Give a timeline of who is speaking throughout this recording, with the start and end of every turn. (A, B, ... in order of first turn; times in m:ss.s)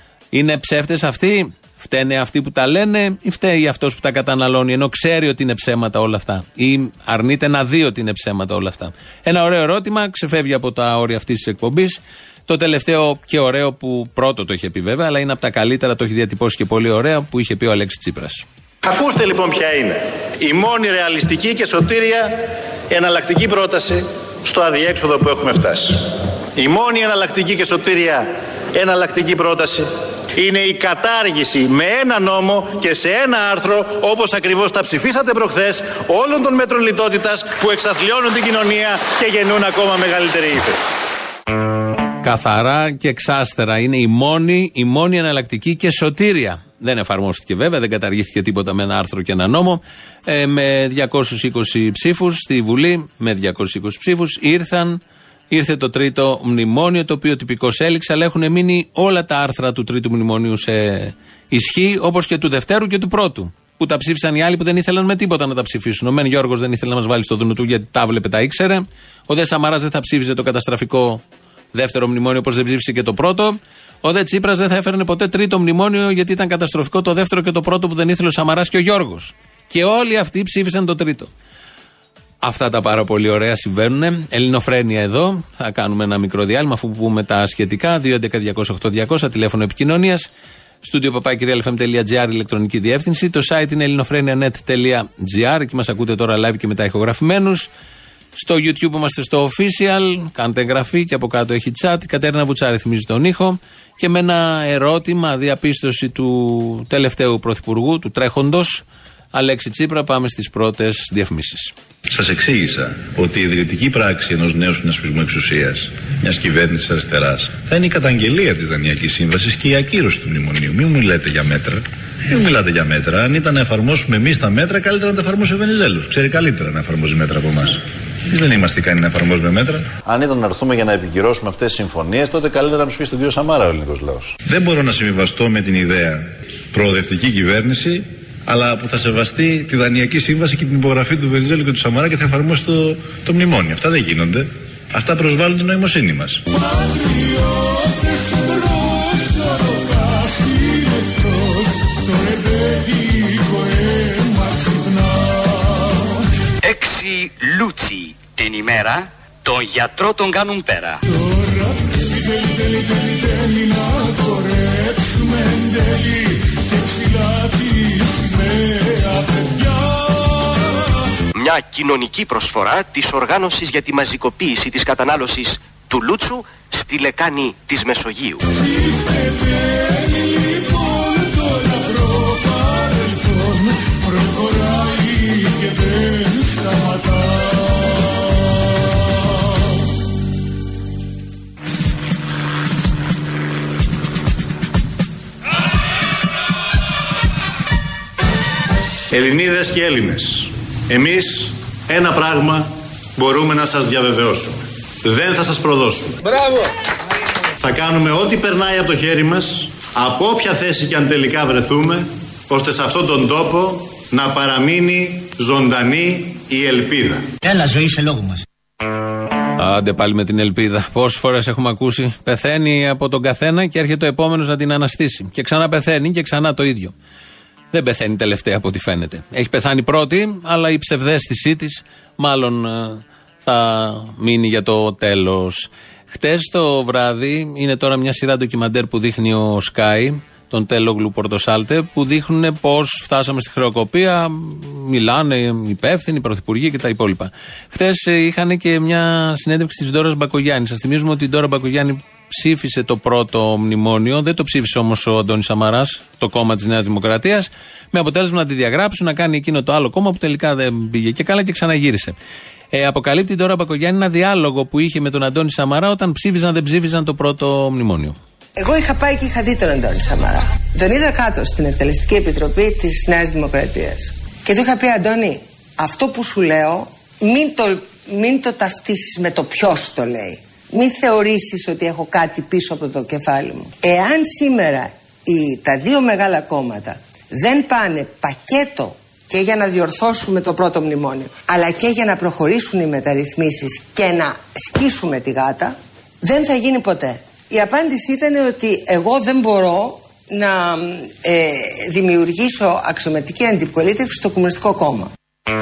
0:00.3-0:18.4 A
0:18.8-0:22.4 B
0:22.9-0:26.0 B
0:26.6-0:40.9 B
0:42.2-1:11.2 A
1:11.7-1:21.3 A
1:22.4-1:30.3 A
1:30.8-1:37.7 A
1:38.4-1:51.7 A
1:52.1-2:09.9 C
2:10.1-2:14.3 B
2:14.3-2:26.4 C
2:26.8-2:35.0 D
2:36.6-2:41.0 E
2:42.0-2:49.2 D
2:51.4-2:58.4 F
2:58.8-3:05.8 D
3:06.4-3:06.8 D
3:19.1-3:26.2 B
3:27.6-3:37.2 B
3:37.4-3:38.4 F
3:39.6-3:46.9 A
3:47.7-4:22.2 A
4:22.7-4:28.2 A
4:28.6-5:05.1 G